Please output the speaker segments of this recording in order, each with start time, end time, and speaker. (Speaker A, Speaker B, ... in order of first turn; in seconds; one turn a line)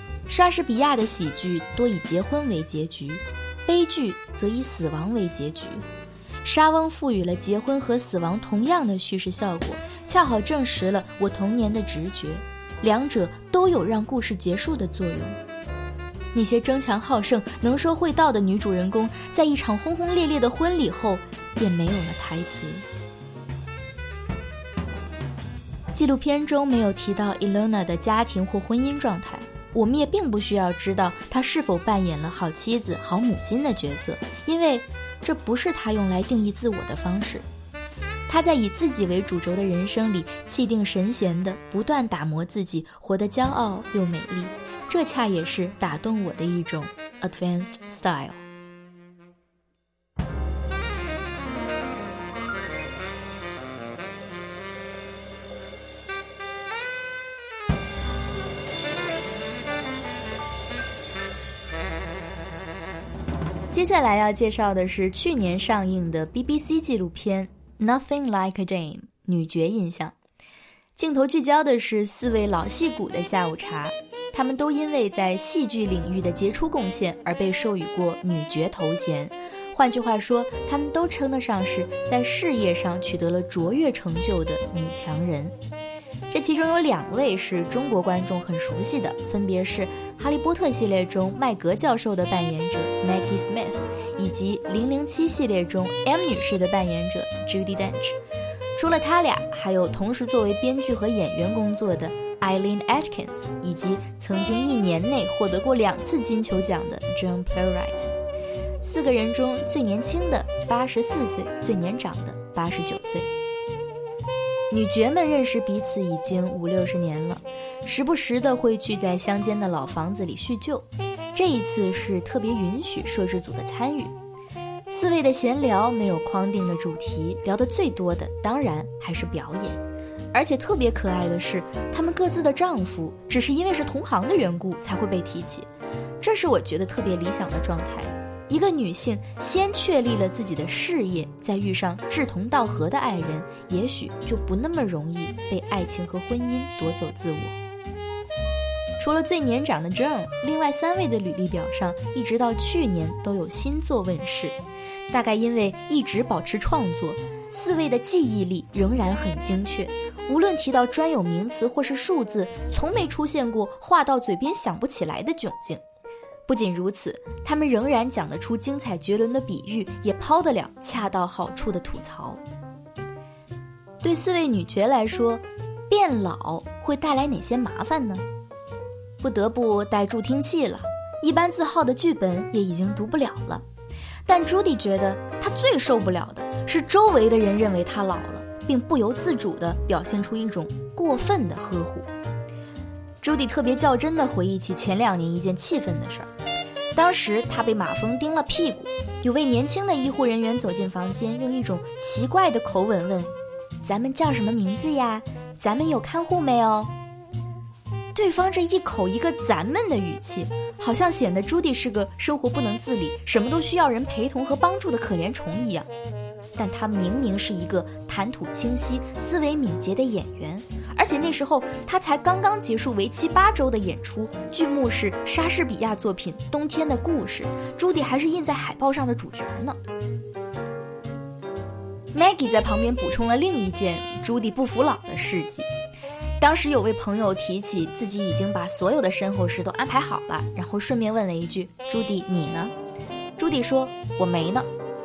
Speaker A: 0.3-5.8
Speaker A: 6.4-15.4
Speaker A: 16.3-22.9
Speaker A: 25.9-37.5
Speaker A: 38.3-48.4
Speaker A: 63.7-70.2
Speaker A: 71.0-85.5
Speaker A: 86.3-98.2
Speaker A: 98.8-108.1
Speaker A: 108.8-113.3
Speaker A: 114.7-124.1
Speaker A: 124.9-129.8
Speaker A: 130.3-135.7
Speaker A: 136.2-147.6
Speaker A: 149.0-154.6
Speaker A: 155.1-165.8
Speaker A: 166.5-172.4
Speaker A: 174.0-178.2
Speaker A: 179.2-183.6
Speaker A: 184.2-192.1
Speaker A: 193.2-196.3
Speaker A: 196.9-203.3
Speaker A: 203.8-206.9
Speaker A: 208.2-215.9
Speaker A: 216.6-229.8
Speaker A: 232.1-235.7
Speaker A: 236.4-242.7
Speaker A: 243.4-244.7